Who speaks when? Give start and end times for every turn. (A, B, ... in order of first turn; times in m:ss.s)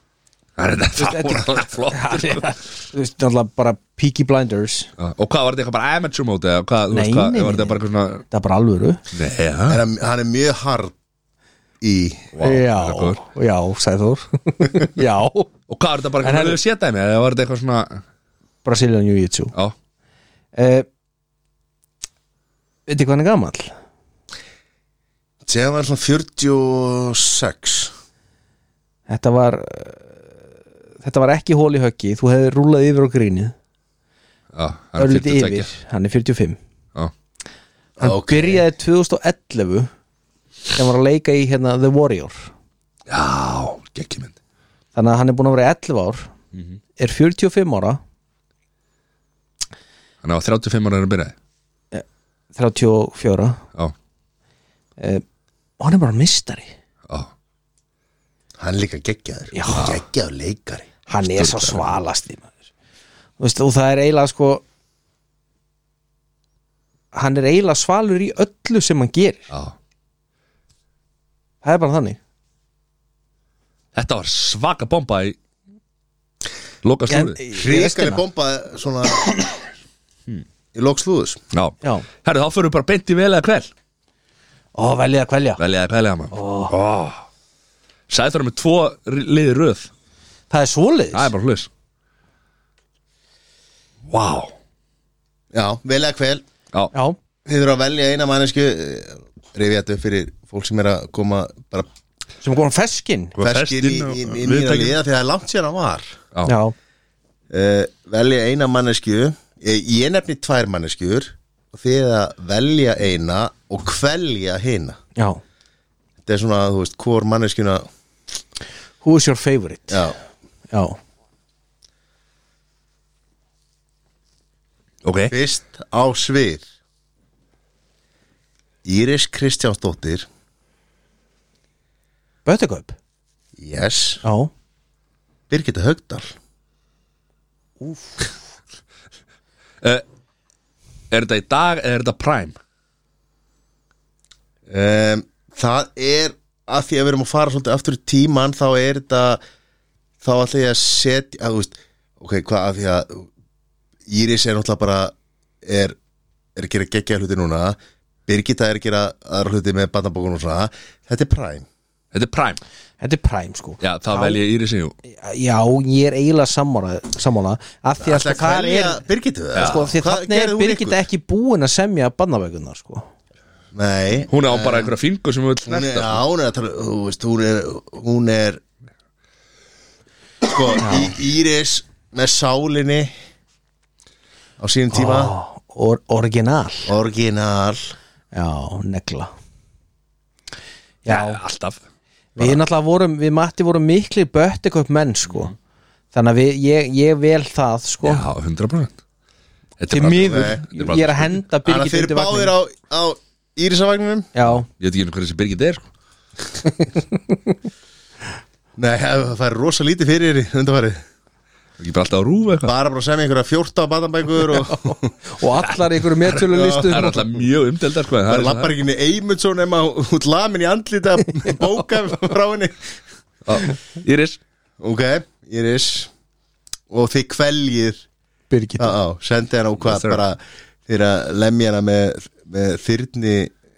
0:00.6-0:02.5 A
0:01.0-0:04.9 B
0:05.0-0:08.2 A
0:06.9-0:07.8 B
0:08.3-0:09.0 B
0:09.1-0:09.8 A
0:09.7-0:10.9 C
0:11.8-0:12.3 C
0:12.3-0:13.2 A
0:12.4-0:15.5 B
0:15.7-0:18.0 A
0:16.2-0:16.6 B
0:18.6-0:19.5 B
0:20.5-0:20.8 B
0:22.9-0:23.7 B
0:25.4-0:27.9 C
0:29.1-0:30.2 B
0:31.0-0:33.5 B
0:34.5-0:35.7 A
0:35.0-0:36.6 B
0:38.0-0:38.6 C
0:38.0-0:39.9 B
0:40.7-0:42.5 B
0:43.1-0:44.4 A
0:44.9-0:46.3 B
0:47.0-0:48.0 B
0:50.2-0:51.3 A
0:51.9-0:53.6 B
0:55.0-0:55.2 B
0:55.8-0:56.7 B
0:58.6-1:00.9 C
0:59.5-0:59.9 B
1:01.1-1:02.5 B
1:01.2-1:02.0 A
1:03.4-1:04.6 B
1:07.1-1:09.5 B
1:11.6-1:12.2 B
1:13.9-1:15.4 A
1:16.8-1:17.4 A
1:17.1-1:18.2 B
1:17.5-1:19.6 C
1:20.7-1:21.4 C
1:21.5-1:23.7 A
1:24.7-1:25.6 B
1:25.6-1:27.2 A
1:26.3-1:26.7 B
1:28.1-1:29.9 A
1:30.5-1:31.3 B
1:31.1-1:31.7 A
1:34.1-1:34.5 A
1:35.5-1:36.4 C
1:37.4-1:41.9 C
1:42.4-1:43.4 B
1:43.4-1:45.0 A
1:43.4-1:46.2 C
1:46.4-1:46.7 B
1:47.5-1:55.0 C
1:55.2-1:55.4 B
1:56.2-1:57.8 C
1:59.0-2:00.1 B
1:59.9-2:00.2 C
2:00.7-2:01.0 B
2:05.0-2:05.3 A
2:05.3-2:06.6 C
2:08.8-2:10.3 C
2:12.4-2:13.0 B
2:13.6-2:14.2 C
2:14.2-2:14.5 B
2:15.5-2:16.3 C
2:17.8-2:18.2 B
2:21.1-2:22.5 A
2:24.7-2:29.4 C
2:30.2-2:33.3 C
2:34.1-2:36.0 C
2:36.6-2:41.6 C
2:42.1-2:42.6 A
2:43.0-2:44.4 B
2:43.8-2:44.9 A
2:45.0-2:49.0 B
2:48.0-2:51.0 C
2:49.5-2:49.9 A
2:49.5-2:53.1 B
2:53.7-2:54.9 C
2:54.3-2:56.2 A
2:55.6-2:58.6 C
3:00.4-3:03.1 C
3:00.8-3:01.1 B
3:04.6-3:05.3 C
3:04.9-3:06.9 B
3:06.9-3:07.9 C
3:08.3-3:09.3 B
3:11.0-3:11.4 B
3:11.0-3:11.8 A
3:12.4-3:15.5 B
3:16.1-3:18.2 B
3:18.0-3:18.9 A
3:19.8-3:21.4 A
3:19.9-3:22.5 B
3:20.2-3:20.6 C
3:21.6-3:24.3 C
3:24.3-3:24.6 B
3:24.4-3:25.8 A
3:26.6-3:27.5 B
3:28.8-3:31.0 C
3:31.8-3:32.7 A
3:32.6-3:35.1 C
3:34.6-3:37.3 B
3:35.6-3:38.7 A
3:36.5-3:37.1 C
3:38.2-3:43.0 C
3:43.4-3:44.4 A
3:44.8-3:46.1 C
3:46.9-3:48.0 C
3:48.5-3:49.0 B
3:48.8-3:53.5 C
3:49.8-3:50.2 A